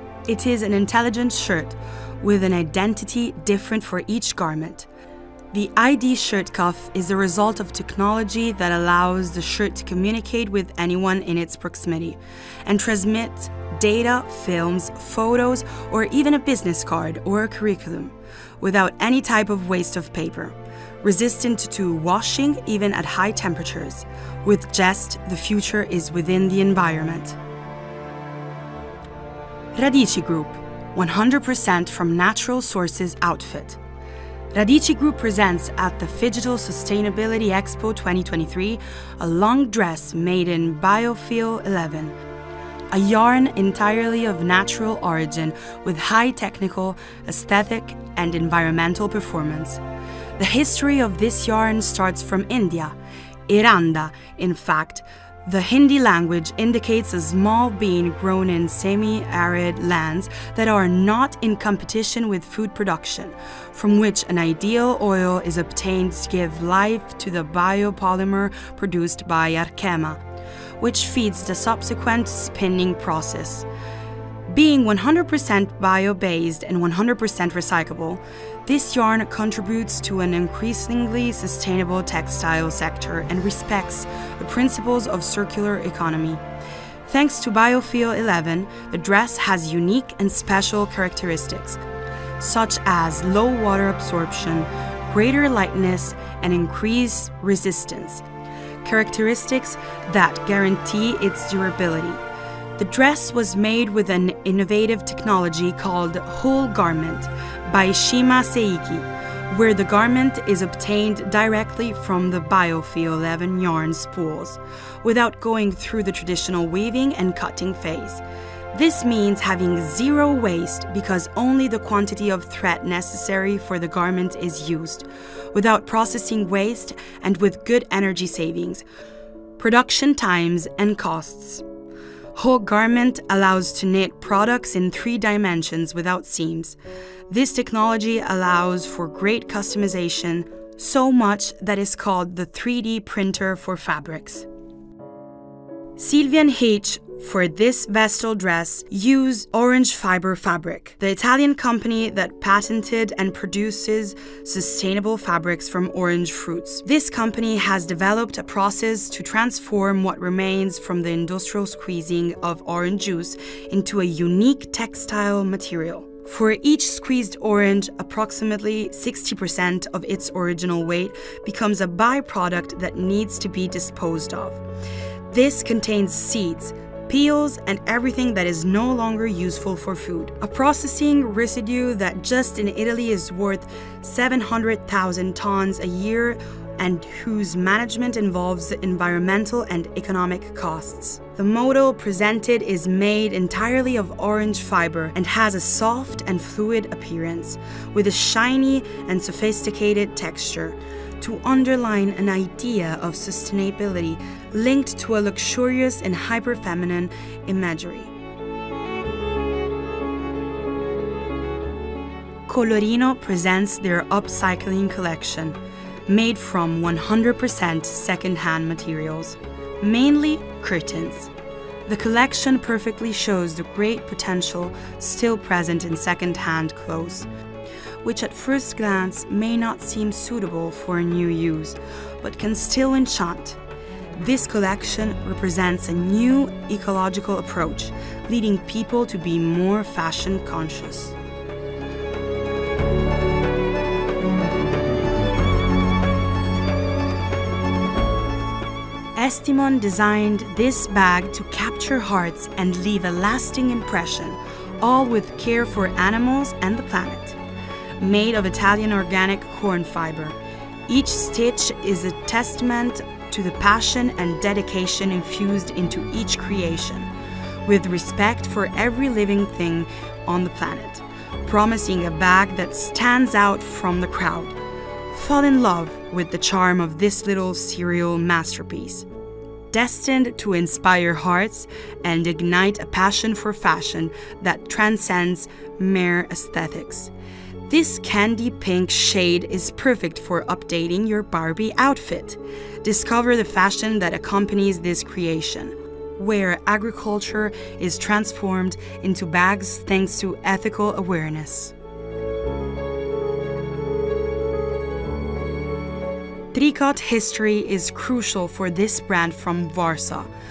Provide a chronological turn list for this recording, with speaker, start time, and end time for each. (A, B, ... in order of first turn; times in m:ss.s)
0:00.3-0:04.9 A
0:05.5-0:27.4 A
0:29.7-0:33.8 A
0:34.5-0:42.2 A
0:42.9-0:49.8 A
0:50.4-0:52.9 A
0:53.5-1:10.2 A
1:10.8-1:13.6 A
1:14.5-1:26.4 A
1:27.0-1:31.8 A
1:32.4-1:38.2 A
1:38.8-1:42.2 A
1:42.8-2:08.8 A
2:09.6-2:11.6 A
2:12.3-2:16.8 A
2:17.3-2:24.4 A
2:26.0-2:54.6 A
2:55.3-3:28.1 A
3:32.5-3:41.3 A
3:41.8-3:47.3 A
3:48.0-3:53.6 A
3:54.1-4:01.2 A
4:09.2-4:17.4 A
4:18.0-4:20.4 A
4:20.9-4:27.1 A
4:27.6-4:34.6 A
4:35.1-4:39.1 A
4:39.7-4:47.1 A
4:47.7-5:01.7 A
5:06.5-5:10.3 A